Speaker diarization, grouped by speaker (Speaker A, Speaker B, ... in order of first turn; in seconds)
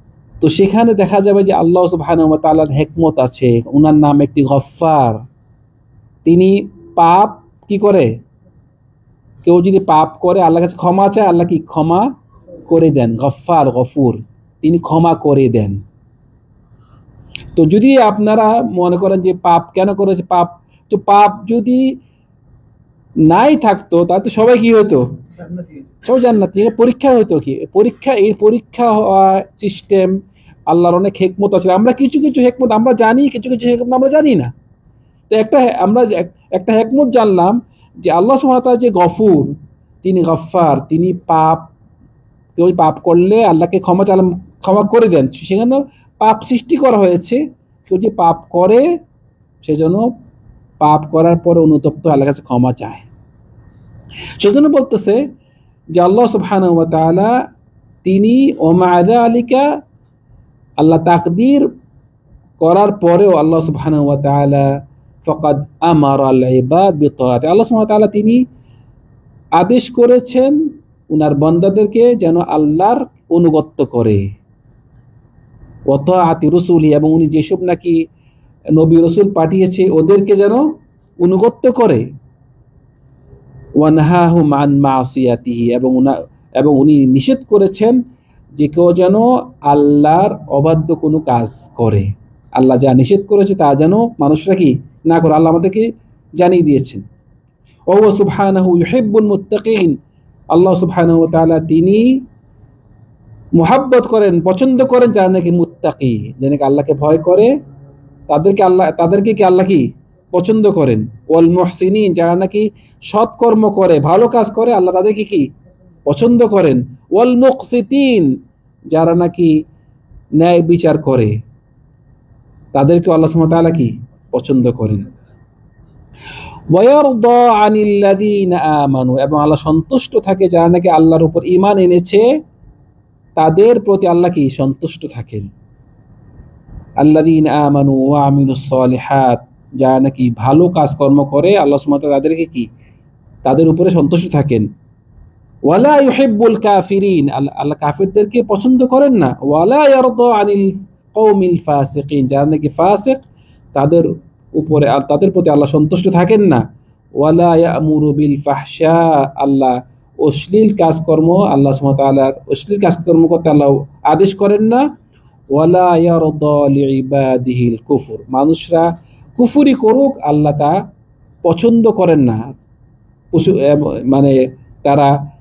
Speaker A: 0.4-5.2, 6.2-8.1, 9.4-12.1, 12.7-15.8, 17.5-22.0, 23.2-25.0, 26.0-30.1, 30.7-34.5, 35.3-41.7, 42.5-48.8, 49.6-50.1, 50.8-53.1, 54.4-55.2, 55.9-57.3, 58.0-59.6, 60.8-61.6, 62.6-64.7, 65.2-68.4, 69.6-70.6, 71.1-74.2, 75.9-78.0, 78.7-80.6, 81.2-82.0, 83.8-88.0, 88.6-95.8, 96.4-97.0, 97.9-100.0, 100.5-102.2, 103.5-107.5, 108.3-115.5, 116.0-118.3, 118.9-119.6, 120.4-121.3, 122.7-125.1, 126.7-132.2, 133.4-135.5, 137.0-142.7, 143.4-144.7, 145.7-153.2, 153.7-156.6, 157.2-164.8, 165.5-170.8, 171.4-172.4, 173.3-175.2